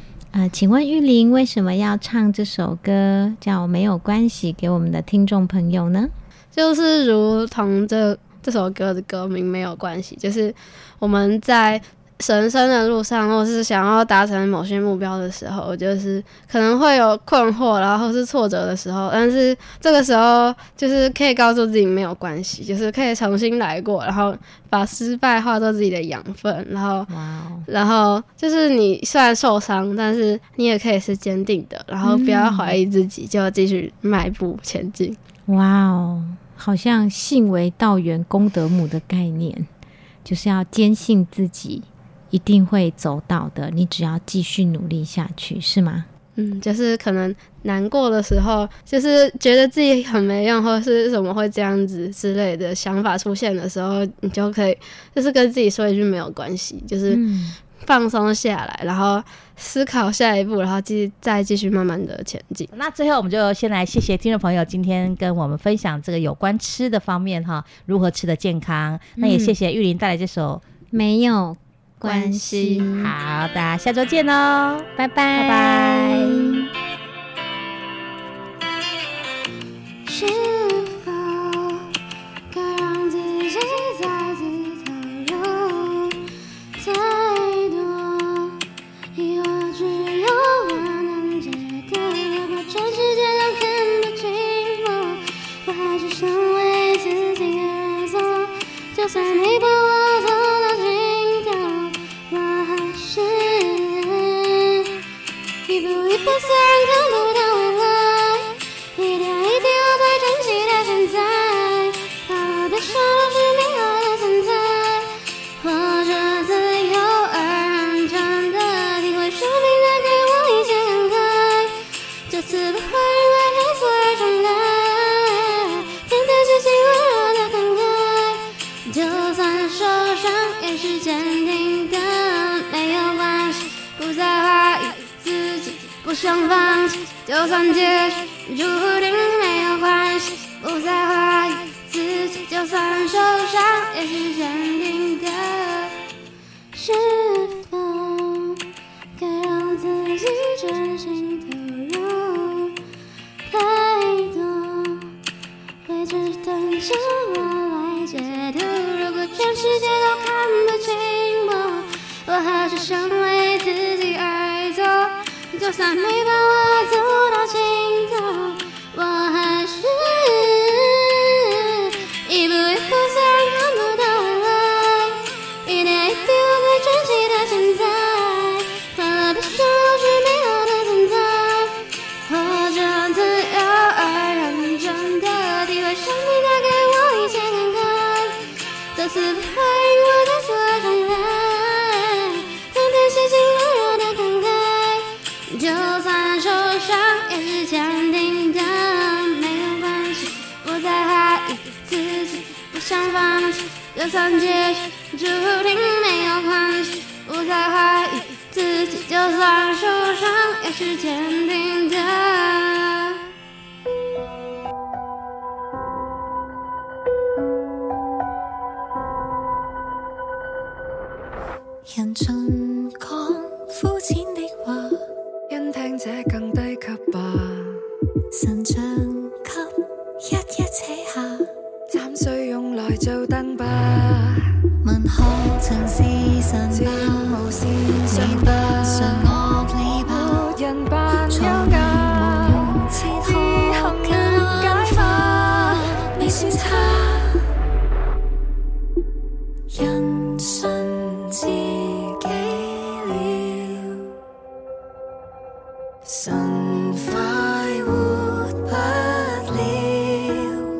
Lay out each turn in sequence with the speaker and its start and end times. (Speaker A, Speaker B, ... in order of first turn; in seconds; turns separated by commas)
Speaker A: 0.3-6.1, Speaker B: 6.5-27.1, Speaker A: 27.1-27.7, Speaker B: 27.7-35.2, Speaker A: 32.0-32.8, Speaker A: 35.5-39.7, Speaker A: 40.2-46.1, Speaker B: 46.4-57.2, Speaker A: 57.1-57.6, Speaker B: 57.8-62.7, Speaker C: 62.7-70.6, Speaker A: 69.2-69.5, Speaker A: 70.9-73.1, Speaker C: 72.0-76.7, Speaker A: 75.0-76.7, Speaker D: 80.0-81.9, Speaker D: 82.5-86.2, Speaker D: 86.8-88.6, Speaker D: 89.1-105.0, Speaker D: 105.7-146.0, Speaker D: 146.7-148.7, Speaker D: 149.2-152.8, Speaker D: 153.5-155.1, Speaker D: 155.8-188.4, Speaker D: 188.9-213.3, Speaker E: 221.8-225.0, Speaker F: 225.5-227.8, Speaker E: 228.3-229.7, Speaker E: 230.2-231.5, Speaker F: 231.9-234.6, Speaker E: 234.8-246.9, Speaker F: 236.7-245.4, Speaker F: 246.1-247.2, Speaker E: 249.7-253.8, Speaker E: 256.1-260.6